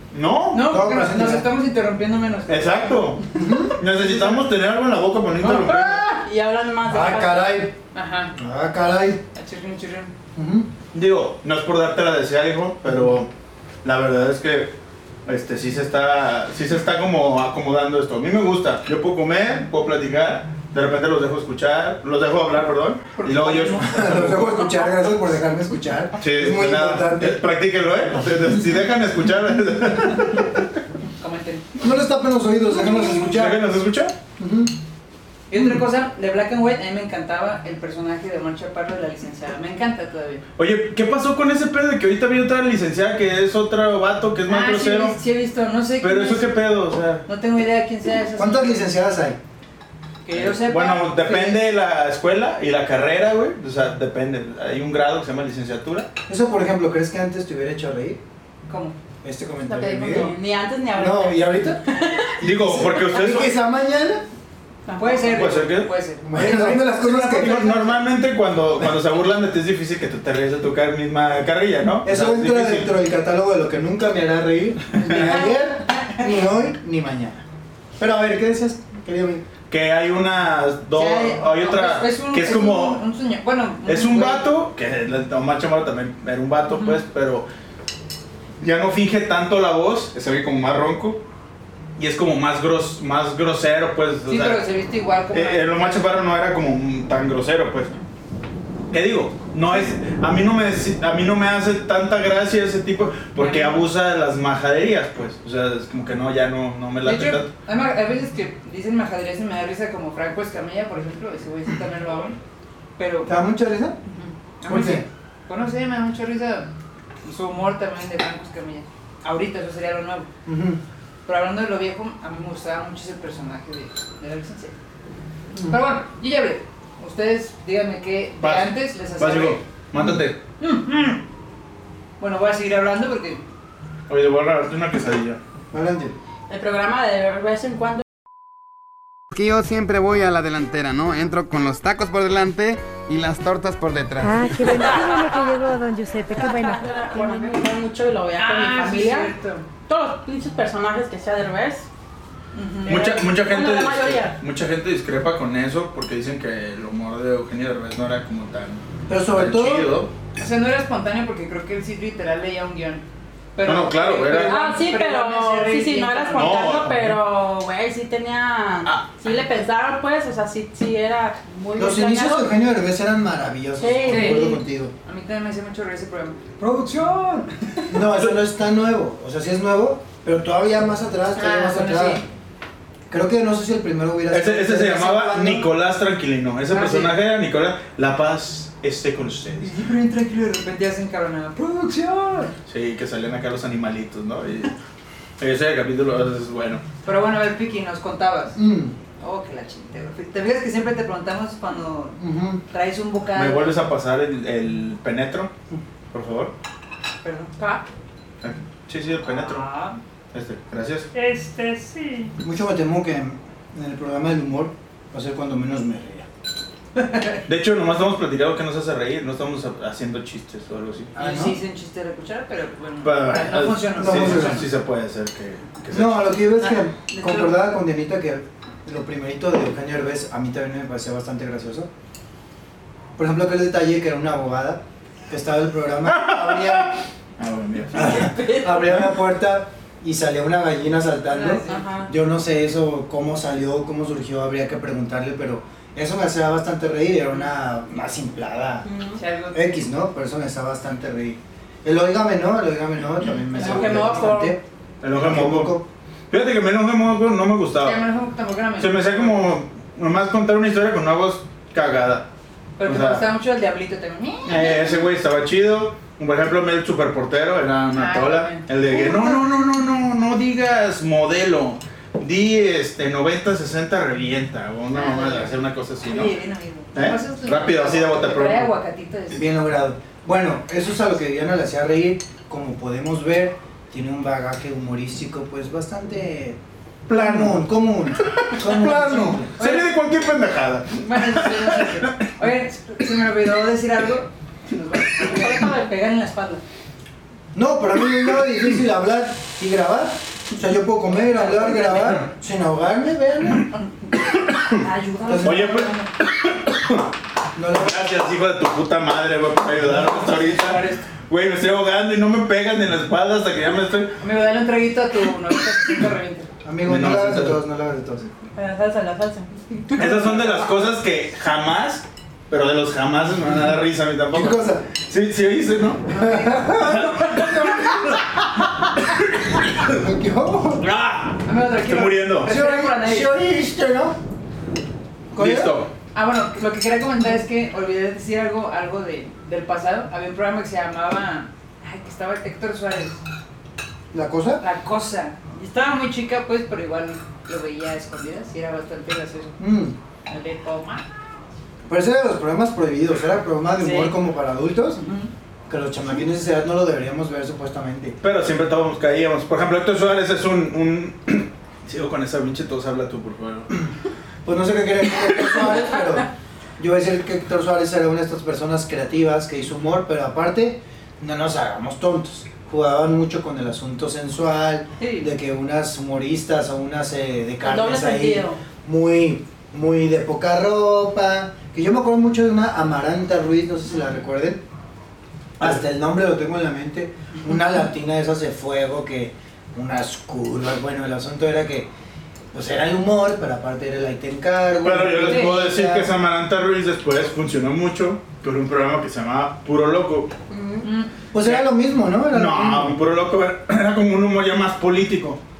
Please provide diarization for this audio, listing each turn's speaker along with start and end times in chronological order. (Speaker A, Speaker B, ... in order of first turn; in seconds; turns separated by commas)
Speaker A: 0.1-0.7, Speaker B: 0.5-3.2, Speaker C: 0.6-1.5, Speaker A: 2.5-6.0, Speaker C: 3.4-4.4, Speaker C: 5.4-6.0, Speaker D: 6.0-7.7, Speaker C: 6.9-7.8, Speaker B: 7.9-8.3, Speaker C: 8.3-9.2, Speaker B: 9.3-10.1, Speaker C: 10.3-10.7, Speaker A: 10.9-13.3, Speaker A: 13.8-14.7, Speaker A: 15.3-24.5, Speaker B: 23.2-24.8, Speaker C: 23.8-27.4, Speaker A: 26.2-30.7, Speaker B: 31.2-31.7, Speaker C: 31.8-33.8, Speaker A: 33.2-34.1, Speaker C: 34.4-34.7, Speaker B: 35.5-40.4, Speaker A: 40.6-45.2, Speaker B: 44.5-46.5, Speaker A: 46.0-47.2, Speaker B: 47.3-48.9, Speaker C: 48.4-49.4, Speaker B: 50.2-51.6, Speaker A: 50.3-56.1, Speaker C: 56.3-58.2, Speaker B: 58.7-59.0, Speaker C: 59.2-60.3, Speaker D: 59.6-62.3, Speaker C: 60.9-61.8, Speaker C: 62.4-64.3, Speaker A: 62.4-63.6, Speaker D: 64.9-65.3, Speaker B: 65.0-66.6, Speaker A: 65.3-72.9, Speaker C: 66.2-68.0, Speaker C: 72.0-77.5, Speaker A: 75.0-75.4, Speaker B: 75.1-75.3, Speaker C: 78.0-79.5, Speaker A: 79.7-83.0, Speaker B: 80.9-84.5, Speaker A: 83.9-87.5, Speaker B: 86.7-87.0, Speaker A: 88.6-91.2, Speaker A: 92.0-94.7, Speaker B: 94.3-96.2, Speaker A: 95.3-97.9, Speaker A: 98.9-107.5, Speaker B: 103.4-103.8, Speaker B: 107.0-112.4, Speaker B: 113.0-113.3, Speaker C: 113.3-114.0, Speaker B: 114.1-116.7, Speaker C: 114.7-115.1, Speaker B: 117.2-120.3, Speaker C: 120.5-120.8, Speaker B: 121.3-124.7, Speaker B: 125.6-129.6, Speaker A: 128.4-130.4, Speaker B: 130.6-131.2, Speaker B: 132.2-133.4, Speaker A: 134.1-135.4, Speaker C: 135.7-136.2, Speaker D: 136.5-138.0, Speaker E: 139.3-144.9, Speaker F: 144.2-146.9, Speaker D: 146.4-149.3, Speaker B: 147.2-147.5, Speaker B: 148.4-149.7, Speaker D: 149.9-151.9, Speaker B: 152.5-153.3, Speaker A: 152.9-160.1, Speaker D: 152.9-154.3, Speaker C: 159.1-159.9, Speaker B: 160.4-163.0, Speaker B: 163.6-166.7, Speaker A: 163.6-164.6, Speaker D: 164.4-172.5, Speaker A: 166.3-167.2, Speaker C: 171.8-174.9, Speaker D: 173.8-174.6, Speaker B: 174.1-177.5, Speaker C: 177.9-182.2, Speaker B: 181.3-182.2, Speaker C: 183.1-185.7, Speaker A: 184.3-189.8, Speaker B: 186.7-187.2, Speaker B: 189.6-192.5, Speaker A: 192.7-194.7, Speaker A: 195.4-196.8, Speaker B: 197.0-198.6, Speaker C: 198.6-198.9, Speaker B: 199.2-203.8, Speaker C: 202.2-202.6, Speaker A: 203.3-205.5, Speaker A: 206.1-206.5, Speaker B: 207.2-207.6, Speaker A: 208.4-209.7, Speaker B: 209.2-210.0, Speaker A: 210.3-211.1, Speaker B: 211.1-212.3, Speaker C: 212.4-216.3, Speaker B: 217.0-217.4, Speaker A: 217.5-221.1, Speaker C: 221.2-221.6, Speaker B: 221.2-224.7, Speaker A: 223.0-226.4, Speaker C: 224.0-224.7, Speaker C: 225.9-231.9, Speaker B: 226.6-227.6, Speaker C: 233.2-237.0, Speaker A: 236.1-239.1, Speaker C: 237.9-248.9, Speaker B: 241.3-242.1, Speaker D: 241.7-242.1, Speaker D: 248.8-249.2, Speaker B: 249.2-249.6, Speaker C: 249.5-255.9, Speaker B: 253.6-254.2, Speaker D: 253.6-254.6, Speaker A: 255.0-255.8, Speaker A: 256.3-258.0, Speaker B: 257.8-259.5, Speaker A: 258.8-262.3, Speaker B: 262.8-264.9, Speaker A: 262.8-263.3, Speaker A: 264.4-276.4, Speaker B: 267.9-268.7, Speaker B: 274.9-279.4, Speaker A: 276.9-278.7, Speaker C: 279.3-289.6, Speaker A: 287.1-287.7, Speaker A: 288.2-292.2, Speaker B: 289.6-289.9, Speaker B: 290.9-296.6, Speaker D: 295.4-295.7, Speaker C: 297.5-303.7, Speaker B: 301.2-302.2, Speaker B: 303.8-306.1, Speaker C: 305.3-305.8, Speaker A: 305.4-307.1, Speaker C: 307.6-308.1, Speaker A: 307.7-314.2, Speaker B: 309.9-311.1, Speaker B: 314.2-316.5, Speaker C: 316.6-318.3, Speaker A: 316.9-317.6, Speaker D: 318.6-319.4, Speaker B: 318.6-319.3, Speaker B: 319.9-320.4, Speaker A: 320.0-328.4, Speaker C: 324.3-324.9, Speaker C: 326.1-328.2, Speaker A: 329.4-329.9, Speaker C: 329.9-330.9, Speaker A: 330.8-332.5, Speaker B: 331.4-333.3, Speaker C: 332.4-334.2, Speaker C: 335.3-335.8, Speaker A: 335.4-335.9, Speaker B: 336.1-343.2, Speaker C: 344.1-344.6, Speaker B: 344.6-349.6, Speaker C: 349.6-350.0, Speaker B: 350.3-351.1, Speaker C: 351.9-355.1, Speaker B: 353.8-354.1, Speaker B: 355.0-355.3, Speaker C: 355.7-358.2, Speaker A: 358.2-363.8, Speaker C: 364.4-366.3, Speaker C: 366.8-384.6, Speaker B: 375.0-375.3, Speaker D: 377.6-378.6, Speaker C: 385.6-391.9, Speaker C: 392.5-396.1, Speaker A: 394.8-400.3, Speaker B: 395.2-395.6, Speaker D: 400.5-400.9, Speaker B: 400.8-401.1, Speaker C: 401.3-403.0, Speaker A: 401.4-401.7, Speaker A: 402.3-405.4